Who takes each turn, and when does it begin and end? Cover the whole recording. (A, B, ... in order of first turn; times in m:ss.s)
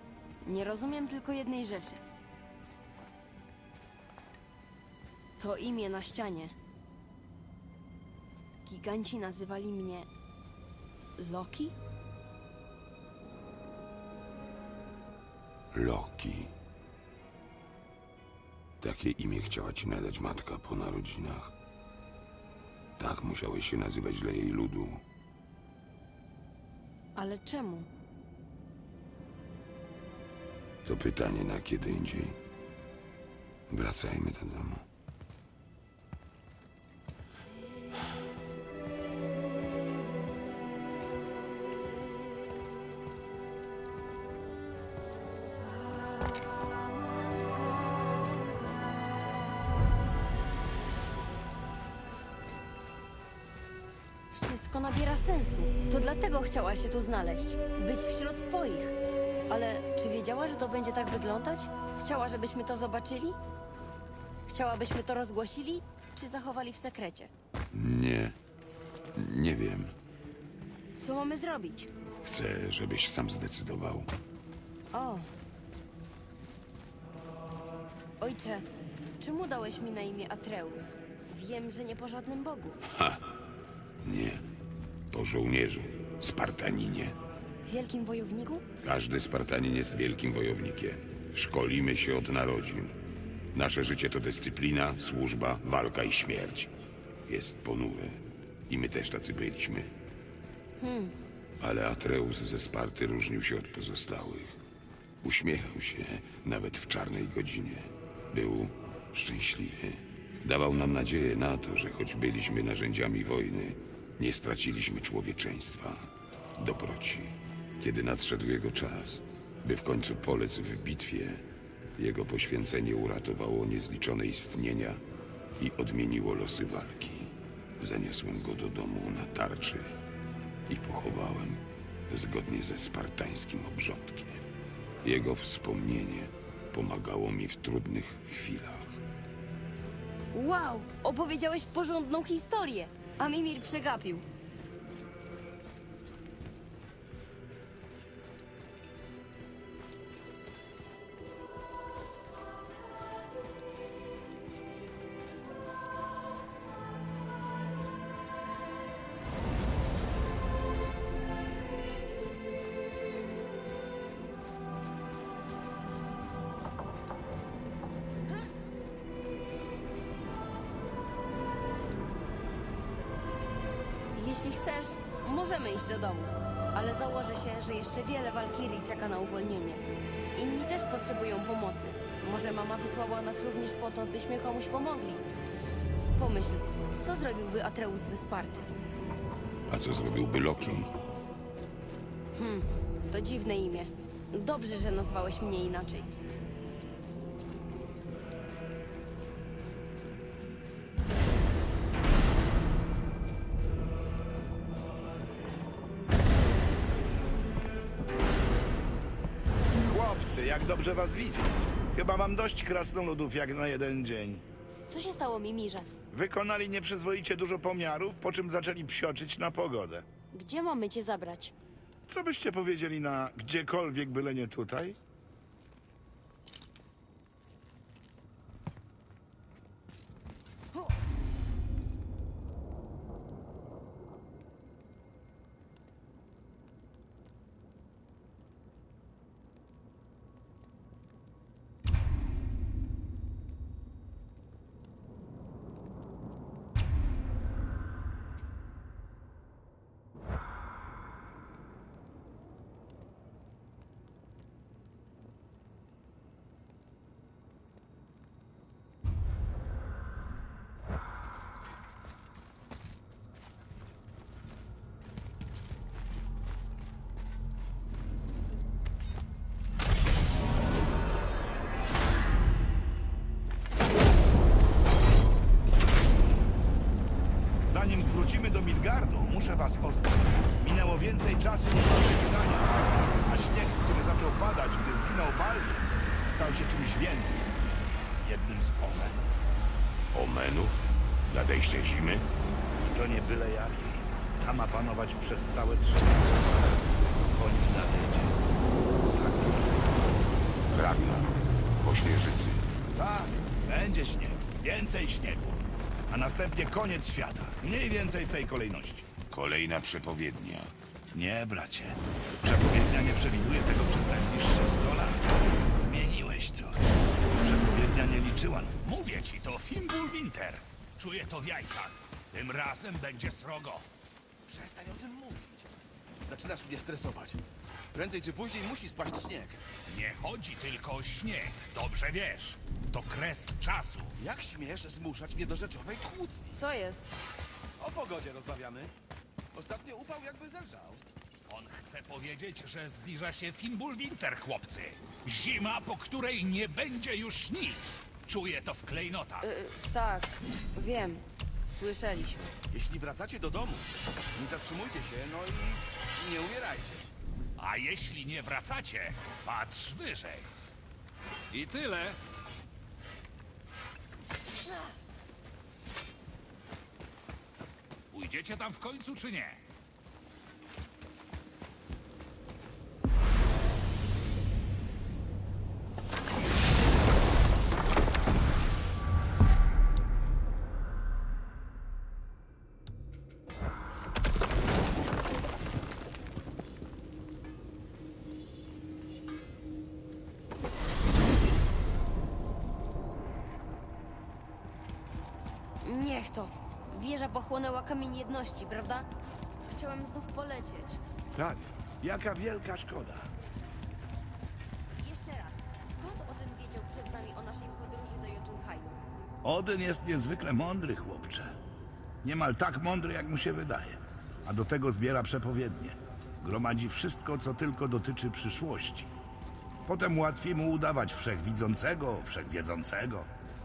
0:00.4-0:02.0 A
0:05.4-0:06.5 A
0:08.6-0:10.1 A
0:11.2-0:11.7 A
0:15.7-0:16.5 B
0:18.8-0:21.5 B
0:23.0-0:25.0 B
0:27.2-0:27.9 A
0:30.8-0:32.4 B
0:33.7-0:34.8 B
0:54.3-0:59.0 A
0:59.5-1:03.4 A
1:04.5-1:07.3 A
1:07.7-1:08.4 B
1:09.2-1:09.9 B
1:11.0-1:11.9 A
1:12.2-1:14.1 B
1:14.9-1:15.3 A
1:18.2-1:18.6 A
1:19.2-1:22.8 A
1:22.9-1:23.2 B
1:24.0-1:24.4 B
1:25.1-1:27.2 B
1:27.6-1:28.6 A
1:28.8-1:33.0 B
1:33.5-1:36.7 B
1:37.2-1:39.9 B
1:40.8-1:41.2 A
1:41.6-1:44.6 B
1:45.2-2:05.0 B
2:05.6-2:09.9 B
2:10.7-2:14.4 B
2:15.0-2:19.0 B
2:20.3-2:24.2 A
2:54.1-3:05.2 A
3:06.1-3:08.7 A
3:09.7-3:10.9 B
3:12.3-3:16.2 A
3:29.8-3:34.4 C
3:34.9-3:35.9 A
3:36.1-3:40.0 C
3:40.3-3:41.5 A
3:42.1-3:45.0 C
4:37.7-4:47.5 C
4:48.2-4:49.3 C
4:50.1-4:52.3 B
4:52.8-4:56.4 C
4:57.2-4:58.4 C
4:59.1-4:59.5 C
5:00.7-5:02.6 B
5:02.9-5:09.1 C
5:09.3-5:10.7 B
5:11.1-5:18.7 C
5:18.8-5:23.8 D
5:24.5-5:25.7 E
5:26.2-5:27.4 E
5:27.9-5:29.6 E
5:29.9-5:34.2 D
5:34.2-5:36.5 E
5:36.5-5:37.1 A
5:37.8-5:38.9 E
5:39.5-5:41.0 E
5:41.5-5:49.4 D
5:49.4-5:52.5 A
5:52.7-5:57.1 E
5:57.6-6:00.5 D
6:01.5-6:02.2 D
6:08.1-6:09.6 D
6:35.8-6:39.1 A
6:39.6-6:41.0 A
6:41.3-6:43.3 C
6:45.0-6:49.0 A
6:49.4-6:51.5 C
6:52.2-6:59.1 C
6:59.8-7:03.3 C